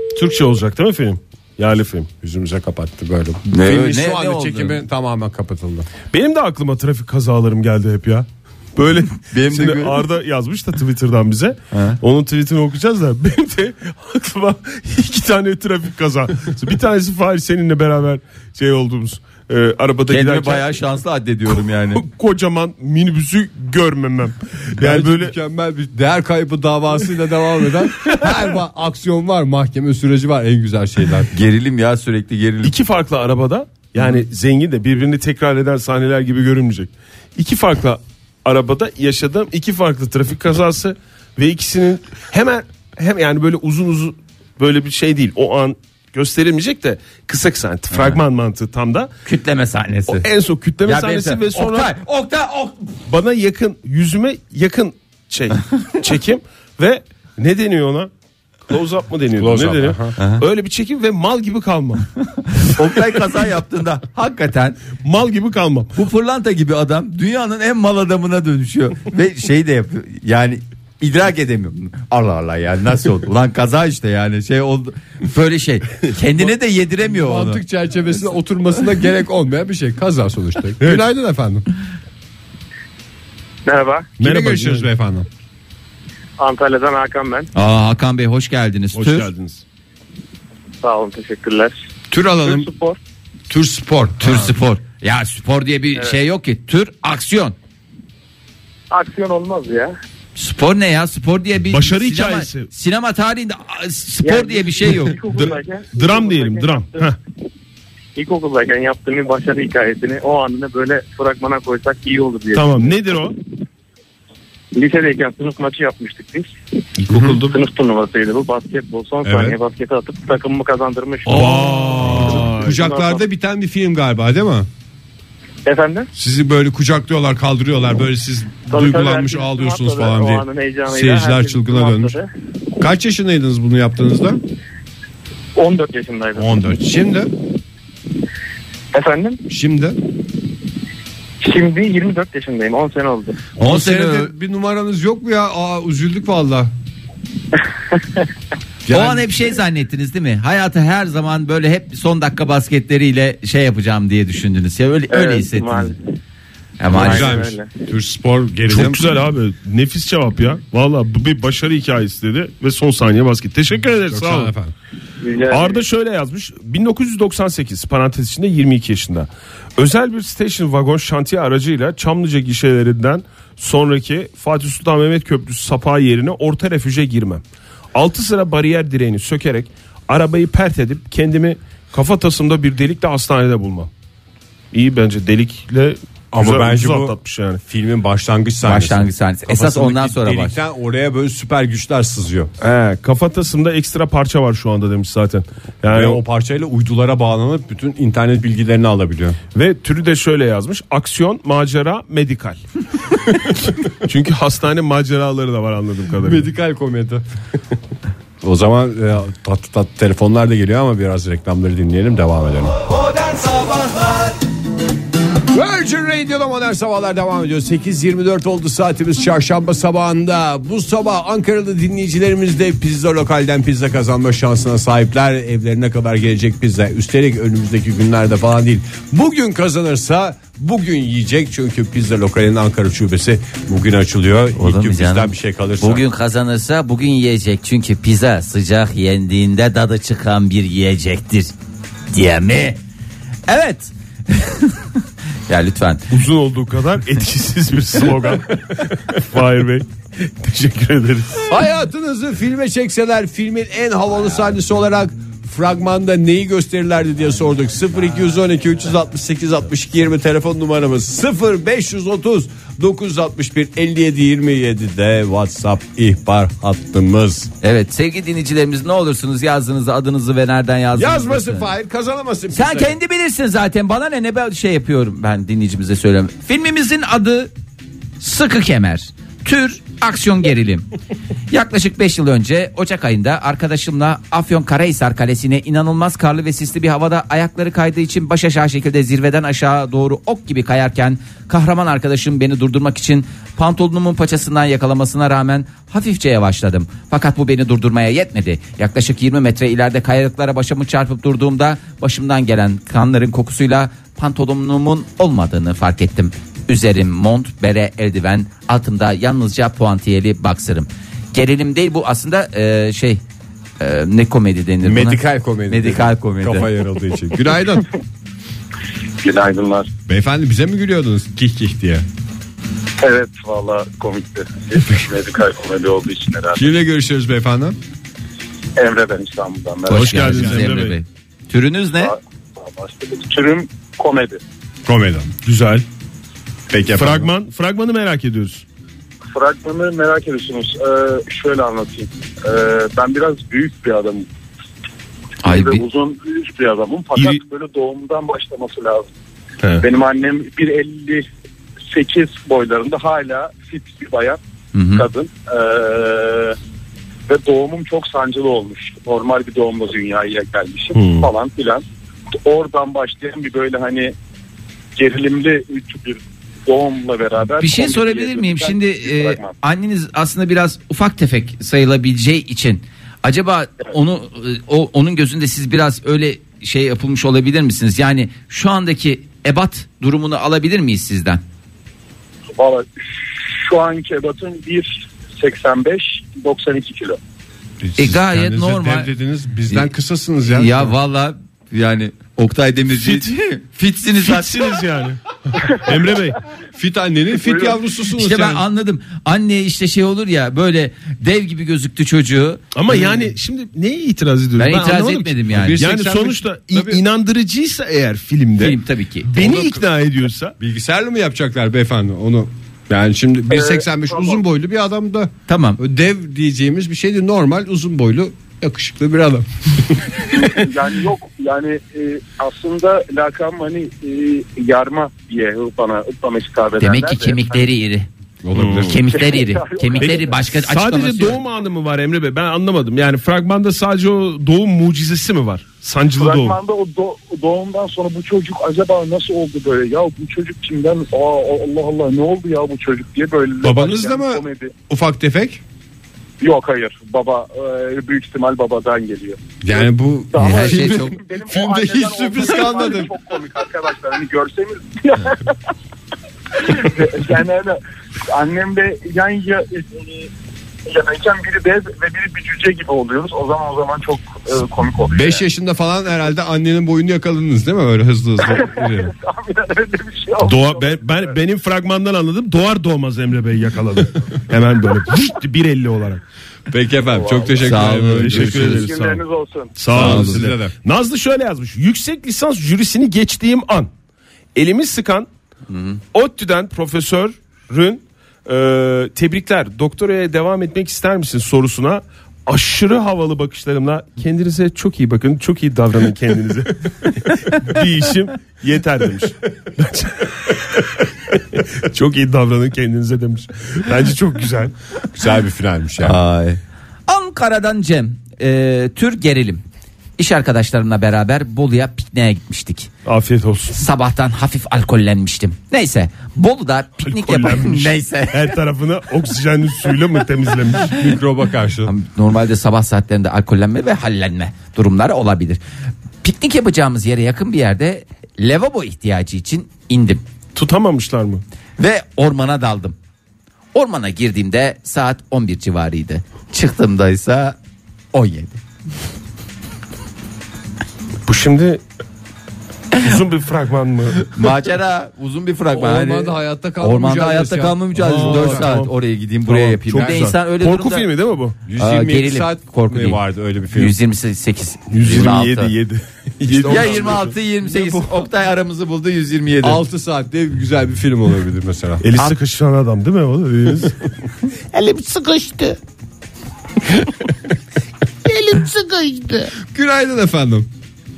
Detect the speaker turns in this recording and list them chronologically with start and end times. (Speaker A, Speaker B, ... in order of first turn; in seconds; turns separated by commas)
Speaker A: 0.1-2.1, Speaker B: 2.2-5.9, Speaker C: 3.5-4.8, Speaker A: 6.1-20.7, Speaker C: 9.3-10.0, Speaker C: 11.7-12.0, Speaker C: 20.1-22.0, Speaker A: 21.5-25.4, Speaker B: 24.8-31.3, Speaker C: 31.3-32.7, Speaker A: 32.6-49.1, Speaker C: 47.9-48.2, Speaker C: 49.2-50.3, Speaker A: 50.1-51.9, Speaker C: 50.9-52.9, Speaker A: 53.1-58.1, Speaker A: 58.7-62.0, Speaker B: 59.4-60.1, Speaker C: 60.2-60.4, Speaker C: 62.6-64.8, Speaker A: 65.0-65.9, Speaker C: 66.0-77.6, Speaker B: 77.0-81.7, Speaker D: 83.7-84.1, Speaker B: 84.2-85.3, Speaker A: 84.2-84.9, Speaker D: 86.4-87.5, Speaker C: 87.5-89.3, Speaker A: 88.9-89.6, Speaker D: 90.8-91.8, Speaker B: 92.1-92.7, Speaker D: 92.4-93.0, Speaker B: 93.5-94.5, Speaker C: 94.2-97.5, Speaker D: 98.9-99.9, Speaker C: 100.4-105.2, Speaker A: 101.7-102.7, Speaker D: 104.2-107.1, Speaker A: 105.3-107.2, Speaker D: 108.2-113.0, Speaker A: 112.5-113.4, Speaker D: 114.7-116.5, Speaker A: 117.0-117.6, Speaker D: 117.1-121.7, Speaker B: 119.2-119.6, Speaker A: 121.3-122.8, Speaker B: 121.3-124.7, Speaker D: 122.3-123.2, Speaker D: 125.7-126.1, Speaker B: 126.1-132.2, Speaker D: 128.7-132.3, Speaker B: 132.8-134.4, Speaker D: 135.6-136.5, Speaker B: 136.4-137.3, Speaker D: 138.9-139.4, Speaker B: 139.5-140.0, Speaker D: 141.4-143.5, Speaker C: 143.6-144.3, Speaker B: 143.6-146.7, Speaker D: 147.9-148.2, Speaker B: 148.9-149.3, Speaker C: 148.9-155.9, Speaker D: 155.1-156.0, Speaker C: 156.8-157.4, Speaker D: 156.9-157.7, Speaker B: 156.9-159.1, Speaker A: 158.7-164.5, Speaker B: 164.1-164.7, Speaker D: 165.2-165.8, Speaker A: 165.5-177.4, Speaker A: 177.9-183.9, Speaker A: 184.7-187.6, Speaker B: 186.3-192.5, Speaker C: 188.6-190.6, Speaker A: 192.6-196.2, Speaker B: 195.9-199.4, Speaker A: 199.6-202.6, Speaker A: 203.3-206.5, Speaker B: 206.2-207.2, Speaker B: 208.4-212.8, Speaker B: 215.5-236.1, Speaker C: 234.6-241.5, Speaker C: 242.1-242.8, Speaker C: 243.5-244.9, Speaker C: 245.5-246.1, Speaker A: 246.1-251.5, Speaker B: 251.5-267.5, Speaker C: 267.6-271.7, Speaker B: 270.9-273.0, Speaker C: 272.5-277.5, Speaker C: 278.2-280.9, Speaker C: 281.5-313.2, Speaker C: 313.8-316.7, Speaker B: 314.8-317.9, Speaker E: 319.2-319.9, Speaker B: 320.1-322.1, Speaker E: 323.0-326.6, Speaker B: 326.5-327.8, Speaker E: 328.8-330.3, Speaker C: 329.9-332.1, Speaker A: 329.9-331.0, Speaker B: 330.4-330.6, Speaker E: 332.0-334.4, Speaker B: 334.9-335.3, Speaker A: 335.4-335.9, Speaker B: 336.7-337.3, Speaker A: 336.9-338.6, Speaker E: 339.3-344.3, Speaker C: 345.4-345.8, Speaker E: 345.4-349.1, Speaker E: 349.8-351.3, Speaker E: 351.9-354.4, Speaker C: 354.7-355.1, Speaker E: 354.9-356.6, Speaker E: 357.3-361.8, Speaker A: 360.9-361.3, Speaker E: 362.4-364.1, Speaker E: 365.0-369.5, Speaker C: 367.6-381.4, Speaker E: 382.6-387.2, Speaker B: 387.8-390.9, Speaker C: 388.0-389.1, Speaker C: 390.5-394.7, Speaker A: 392.9-393.3, Speaker A: 394.1-396.4, Speaker B: 396.7-398.6, Speaker C: 398.2-403.3, Speaker A: 402.7-410.6, Speaker C: 404.6-405.8, Speaker B: 405.5-407.0, Speaker C: 408.6-409.3, Speaker B: 409.3-409.9, Speaker B: 410.6-419.8, Speaker E: 413.5-414.4, Speaker C: 415.5-415.8, Speaker E: 420.3-427.7, Speaker C: 426.8-428.1, Speaker B: 428.4-429.0, Speaker A: 428.6-428.9, Speaker C: 428.9-431.4, Speaker E: 429.1-430.4, Speaker A: 430.0-436.6, Speaker E: 436.1-444.7, Speaker B: 443.6-445.6, Speaker E: 446.4-455.5, Speaker B: 449.6-453.1, Speaker C: 450.4-451.2, Speaker E: 456.6-460.3, Speaker E: 460.9-465.4, Speaker B: 465.1-469.1, Speaker E: 468.5-471.2, Speaker A: 470.4-476.2, Speaker B: 476.7-478.9, Speaker E: 477.1-477.6, Speaker C: 477.6-478.9, Speaker A: 477.8-479.2, Speaker E: 478.6-479.7, Speaker A: 479.8-483.9, Speaker C: 479.9-480.5, Speaker B: 479.9-480.7, Speaker A: 484.6-485.3, Speaker C: 485.7-486.0, Speaker A: 486.1-504.7, Speaker B: 505.1-506.2, Speaker C: 506.0-509.6, Speaker C: 510.2-512.9, Speaker A: 513.1-513.8, Speaker C: 513.7-518.5, Speaker A: 517.0-521.0, Speaker B: 520.9-521.9, Speaker C: 521.9-525.6, Speaker C: 526.2-530.2, Speaker A: 530.5-531.4, Speaker C: 531.8-533.0, Speaker C: 533.7-537.6, Speaker C: 538.1-538.6, Speaker A: 541.3-541.8, Speaker A: 543.0-544.3, Speaker C: 544.3-551.1, Speaker B: 545.7-548.8, Speaker A: 548.0-548.9, Speaker A: 549.5-551.6, Speaker B: 551.6-554.0, Speaker C: 551.8-555.7, Speaker A: 554.9-557.3, Speaker B: 556.4-558.3, Speaker C: 556.6-559.8, Speaker B: 559.6-562.0, Speaker A: 562.0-564.0, Speaker C: 564.7-565.8, Speaker C: 568.3-569.5, Speaker B: 569.5-570.7